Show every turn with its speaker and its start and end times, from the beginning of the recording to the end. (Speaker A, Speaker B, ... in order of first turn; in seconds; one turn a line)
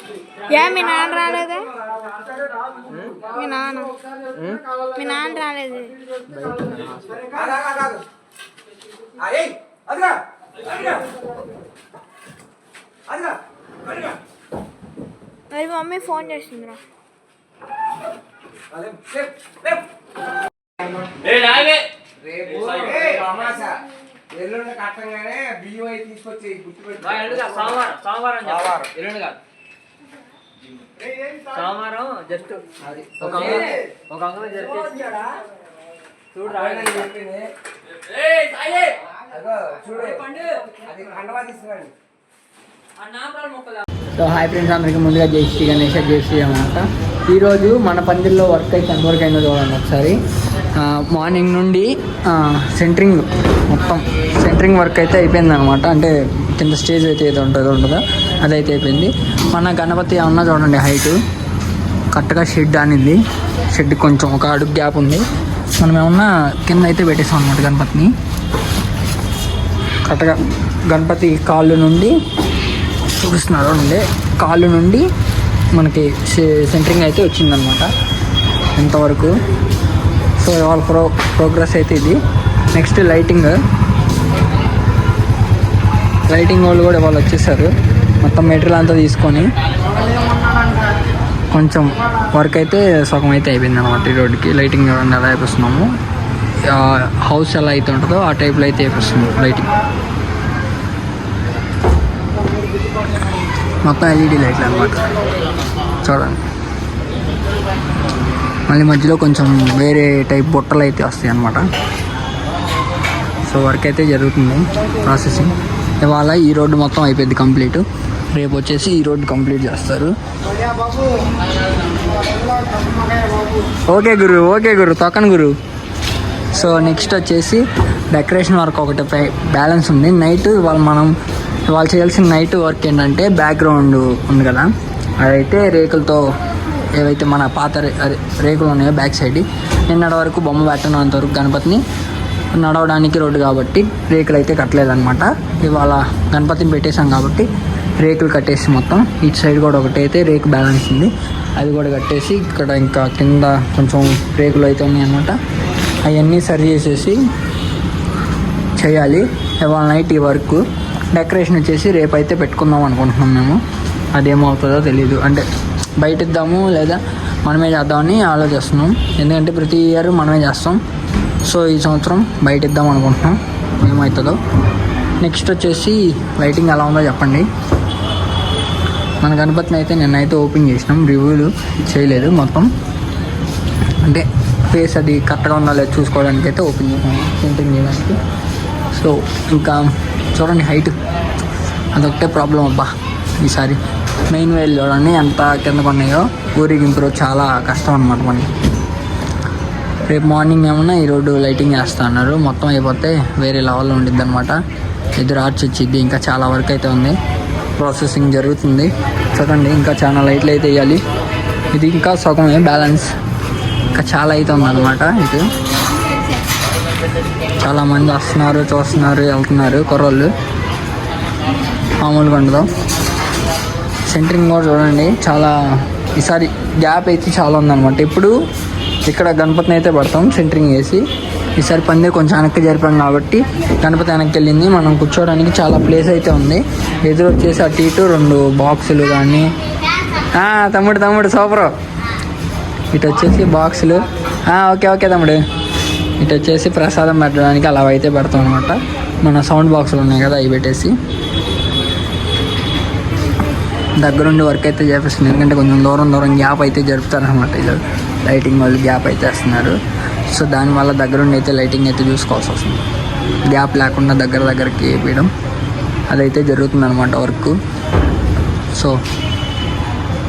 Speaker A: 0.5-1.8
Speaker A: 3.2-6.0
Speaker B: 6.8-7.1
Speaker C: 7.4-8.0
Speaker C: 9.3-10.0
Speaker A: 15.5-16.8
Speaker B: 21.3-21.8
Speaker C: 22.3-23.7
Speaker B: 22.4-23.6
Speaker C: 24.4-27.5
Speaker B: 26.9-29.4
Speaker B: 31.5-35.4
Speaker B: 36.3-37.2
Speaker C: 36.5-37.5
Speaker B: 38.1-39.1
Speaker C: 39.5-40.2
Speaker B: 40.3-40.9
Speaker C: 41.0-41.9
Speaker B: 43.0-43.8
Speaker D: 44.1-50.2
Speaker D: 50.8-61.2
Speaker D: 62.1-65.2
Speaker D: 65.8-68.1
Speaker D: 70.1-70.4
Speaker D: 70.9-72.1
Speaker D: 73.1-75.1
Speaker D: 75.7-77.9
Speaker D: 78.8-79.4
Speaker D: 80.4-82.2
Speaker D: 82.7-83.6
Speaker D: 86.3-89.5
Speaker D: 91.5-95.9
Speaker D: 96.7-99.7
Speaker D: 103.8-105.1
Speaker D: 106.0-106.4
Speaker D: 108.7-111.7
Speaker D: 113.4-120.1
Speaker D: 123.9-125.6
Speaker D: 126.5-131.1
Speaker D: 131.7-134.7
Speaker D: 135.2-136.2
Speaker D: 137.0-141.8
Speaker D: 142.5-147.5
Speaker D: 148.0-155.4
Speaker D: 156.0-157.2
Speaker D: 158.8-163.6
Speaker D: 164.1-165.5
Speaker D: 166.0-170.8
Speaker D: 171.5-174.4
Speaker D: 175.2-177.5
Speaker D: 179.2-182.7
Speaker D: 184.0-188.2
Speaker D: 188.9-191.0
Speaker D: 191.9-198.5
Speaker D: 200.1-204.6
Speaker D: 205.2-207.2
Speaker D: 207.8-211.0
Speaker D: 211.7-213.1
Speaker D: 213.9-215.5
Speaker D: 217.6-220.3
Speaker D: 222.0-222.7
Speaker D: 224.1-228.3
Speaker D: 229.1-231.0
Speaker D: 231.6-239.5
Speaker D: 240.2-241.7
Speaker D: 242.9-245.4
Speaker D: 246.2-250.9
Speaker D: 254.0-259.8
Speaker D: 260.3-262.9
Speaker D: 263.5-265.3
Speaker D: 266.1-267.6